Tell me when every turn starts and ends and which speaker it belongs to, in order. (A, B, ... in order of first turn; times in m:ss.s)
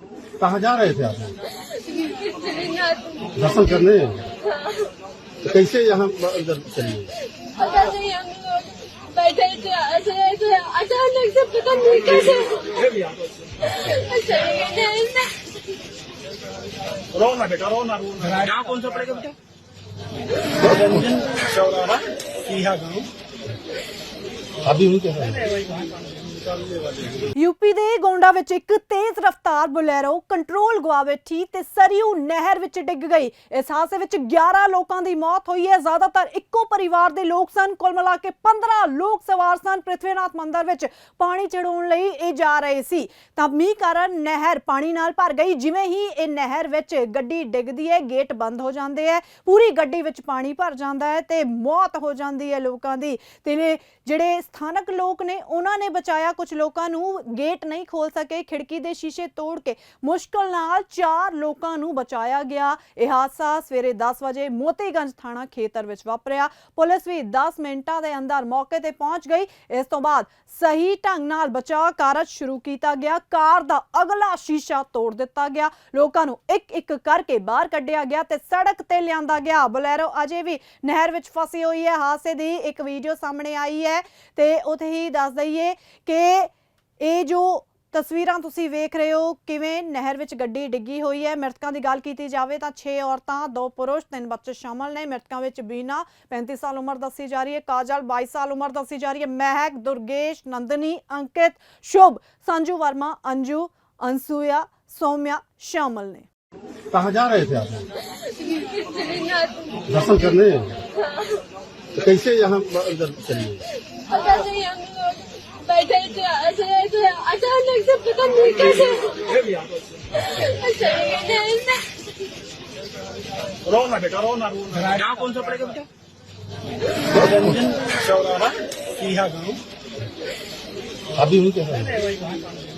0:00.4-0:01.4 A
0:02.6-0:03.2 B
0:03.4-0:04.3 A
0:05.4-0:07.1 A
0:07.6-0:12.6 B
0:12.2-0:13.5 C
0:13.9-0:15.4 B
0:17.1-0:19.2 C
0:20.6-0:23.1 C
0:24.6-0:25.6 A
0:26.7-0:27.2 C
0:27.4-1:46.3 D
1:46.9-1:47.9 A
1:48.6-1:49.8 B
1:49.9-1:50.8 A
1:51.9-1:53.7 A
1:54.1-1:59.1 B
1:58.7-2:00.2 C
2:00.4-2:01.9 B
2:03.6-2:05.8 C
2:07.2-2:09.6 C
2:11.1-2:12.2 A